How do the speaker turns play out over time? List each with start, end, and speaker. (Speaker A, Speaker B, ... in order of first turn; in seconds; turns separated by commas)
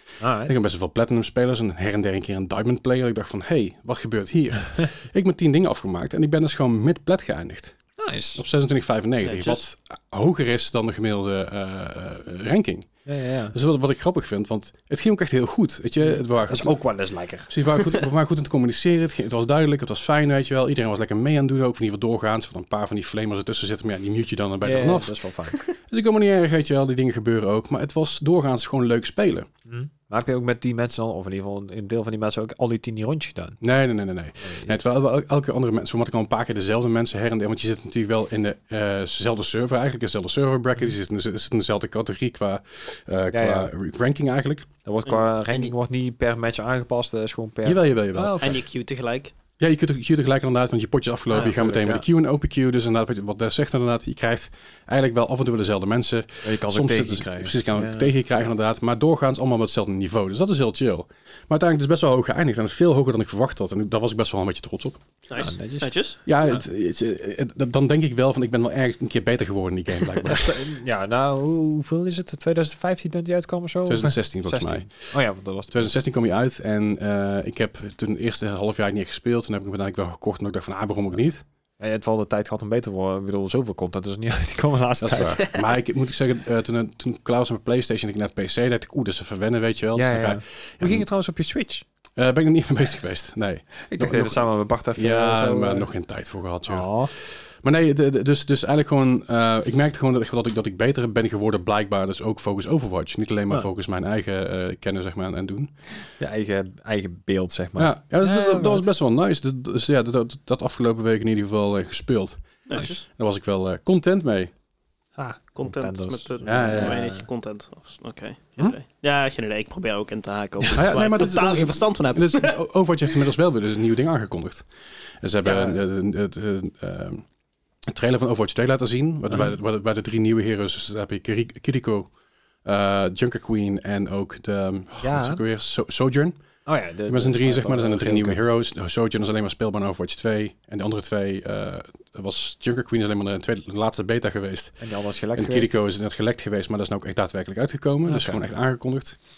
Speaker A: 0.2-0.5, Speaker B: 0.4-7.8, Speaker A: 8.0-8.4, Speaker B: 8.3-13.0, Speaker C: 9.2-9.6, Speaker A: 13.1-13.6, Speaker B: 13.5-16.8, Speaker A: 16.0-18.0, Speaker B: 17.5-25.1, Speaker A: 24.6-25.7, Speaker B: 25.7-29.5, Speaker A: 29.7-33.6, Speaker B: 33.6-44.7, Speaker A: 34.4-34.8, Speaker A: 43.3-43.7, Speaker A: 44.9-48.6, Speaker C: 45.1-45.7, Speaker B: 47.6-48.4, Speaker C: 48.4-49.3, Speaker B: 49.6-65.0, Speaker A: 51.3-52.0, Speaker A: 56.4-58.2, Speaker C: 65.3-66.2, Speaker A: 65.4-65.9, Speaker B: 66.2-70.8, Speaker A: 70.2-75.9, Speaker B: 73.9-75.1, Speaker B: 75.7-81.4, Speaker A: 81.8-85.5, Speaker B: 85.0-91.1, Speaker A: 89.9-91.8, Speaker B: 92.2-105.8, Speaker A: 93.9-95.9, Speaker A: 96.7-97.1, Speaker A: 106.2-108.9, Speaker B: 107.8-112.5, Speaker C: 112.7-113.1, Speaker B: 113.1-114.5, Speaker A: 115.2-117.3, Speaker C: 115.6-122.6, Speaker B: 116.4-117.0, Speaker A: 120.6-120.9, Speaker B: 120.7-124.7, Speaker B: 125.2-127.2, Speaker A: 125.4-125.8, Speaker B: 127.9-132.1, Speaker A: 129.3-129.6, Speaker B: 132.6-136.4, Speaker A: 135.0-135.4, Speaker A: 136.7-138.4, Speaker B: 137.1-149.2, Speaker A: 144.8-145.8, Speaker A: 148.1-148.5